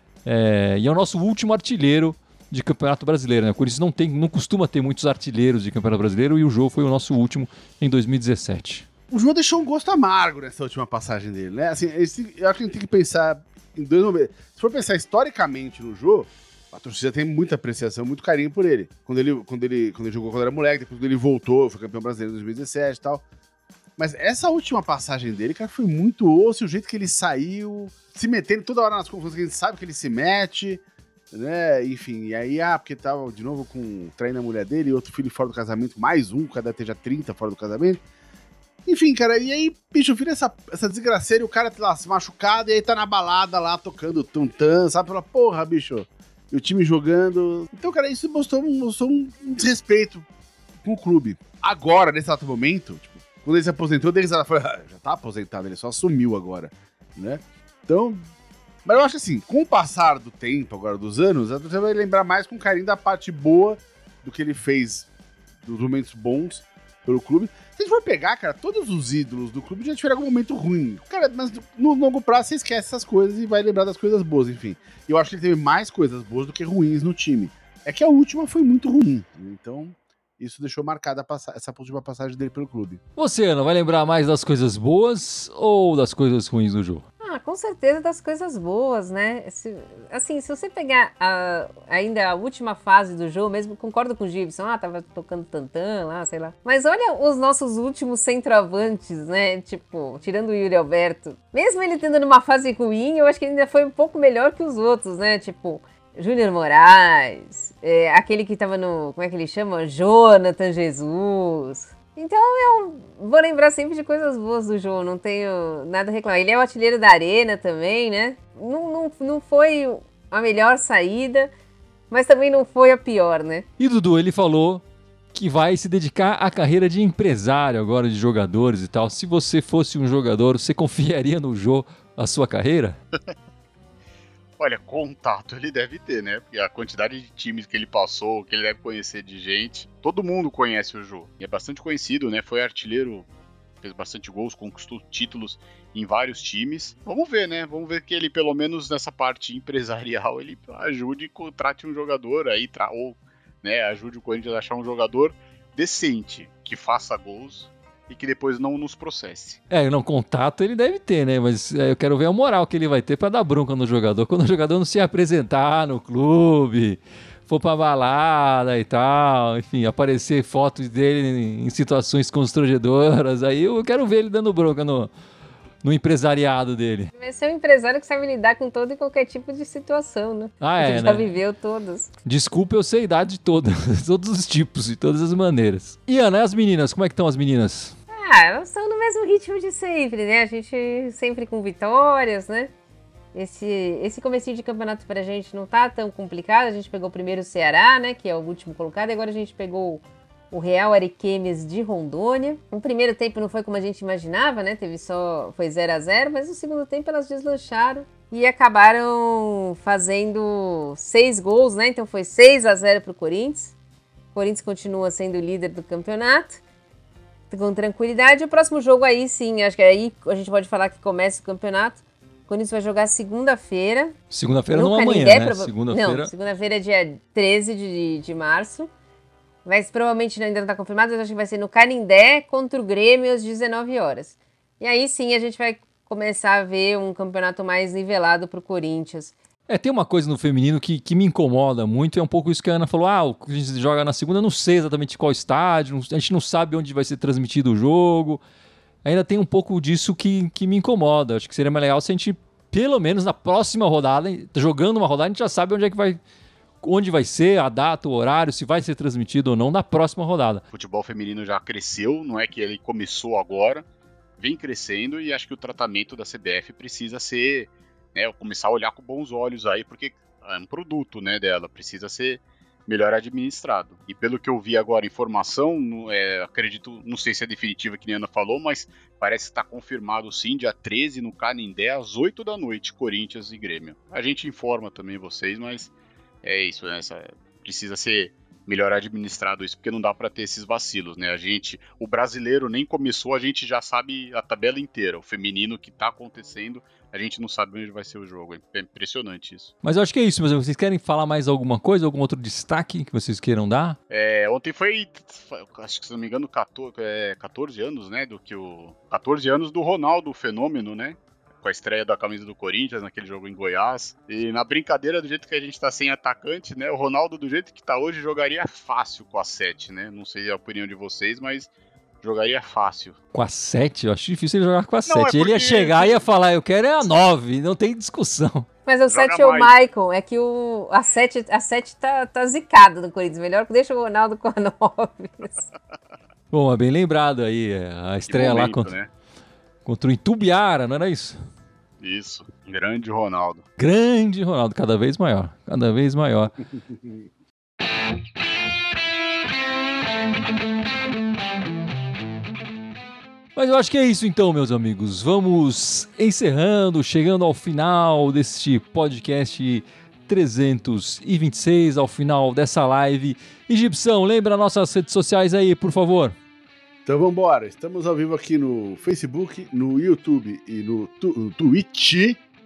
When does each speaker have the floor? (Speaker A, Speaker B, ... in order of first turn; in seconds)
Speaker A: 0.2-8.8, 83.2-87.0, 123.8-133.0, 159.7-175.1, 175.8-177.1, 180.6-181.3, 182.2-187.9, 224.3-226.3, 239.7-248.4, 249.0-256.2, 256.8-260.6, 299.8-304.0, 323.3-328.7, 336.5-338.9, 339.8-341.4, 343.8-346.6, 353.6-366.3
Speaker B: 9.1-23.2, 24.0-38.0, 38.9-50.2, 50.8-58.3, 58.8-65.1, 65.6-83.0, 367.1-372.4
Speaker C: 87.2-121.5, 122.1-123.7, 177.2-182.1, 188.1-192.7, 193.3-213.7, 214.3-216.6, 217.5-224.1, 224.7-228.9, 229.6-239.3, 328.9-335.6
Speaker D: 134.6-143.3, 143.8-159.6, 260.7-263.8, 264.4-285.9, 286.4-299.7, 304.1-321.7, 322.2-323.2, 325.1-326.2, 329.1-329.7, 338.3-339.1, 342.0-343.6